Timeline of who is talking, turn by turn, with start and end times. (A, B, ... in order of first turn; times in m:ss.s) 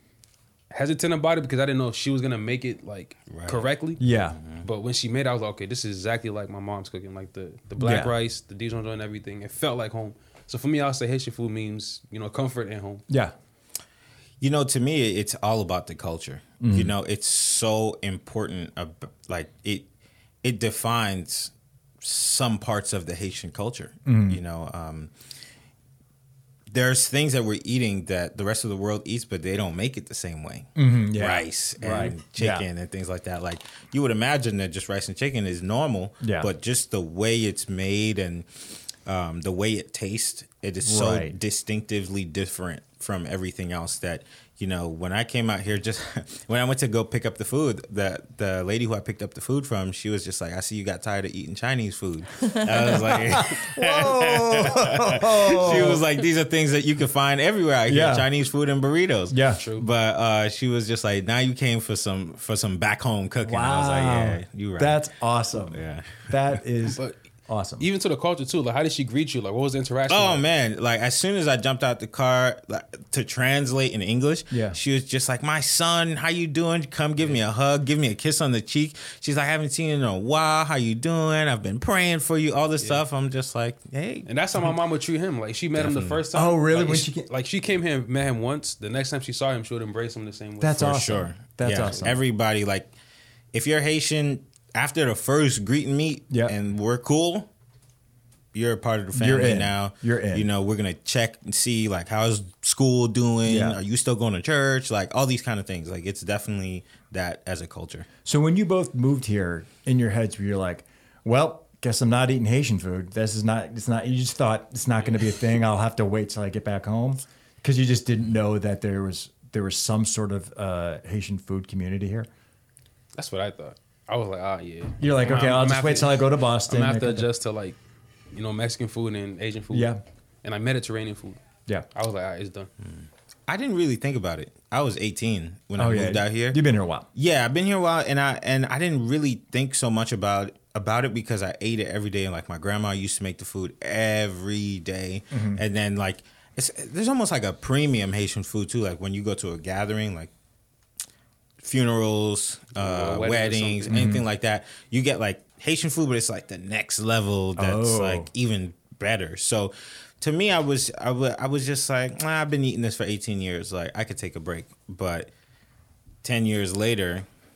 0:00.7-0:04.0 A
0:03.3-0:04.6 B
0:04.0-0:04.4 C
0:04.6-0:13.0 A
0:07.8-0:08.1 C
0:13.1-0:13.3 C
0:14.4-0:19.9 B
0:16.6-0:16.9 C
0:20.4-0:25.1 B
0:24.0-0:24.4 C
0:26.7-1:05.0 B
0:30.8-0:32.6 C
0:36.2-0:36.5 C
0:40.8-0:41.3 C
0:52.8-0:56.0 C
0:57.9-0:58.3 C
0:59.3-0:59.6 C
0:59.6-0:59.8 A
1:03.4-1:07.8 C
1:05.7-1:06.4 B
1:06.8-1:07.2 A
1:07.8-1:10.4 A
1:10.1-1:24.3 B
1:14.5-1:14.8 C
1:24.2-1:31.0 A
1:25.7-1:26.2 B
1:26.3-1:27.3 C
1:30.6-1:32.2 C
1:30.8-1:32.9 B
1:31.8-1:32.1 A
1:33.5-1:37.5 B
1:38.5-1:48.1 B
1:39.1-1:40.5 C
1:43.4-1:43.8 C
1:48.2-2:02.3 C
2:03.2-2:07.8 A
2:05.0-2:07.3 C
2:08.3-2:09.9 A
2:09.7-2:10.0 C
2:10.4-2:11.4 A
2:11.9-2:12.7 A
2:13.0-2:16.6 B
2:15.8-2:17.1 C
2:17.1-2:30.3 B
2:25.3-2:25.6 C
2:31.6-2:45.3 B
2:32.7-2:34.1 A
2:33.9-2:34.2 C
2:37.6-2:38.3 C
2:46.2-2:47.2 B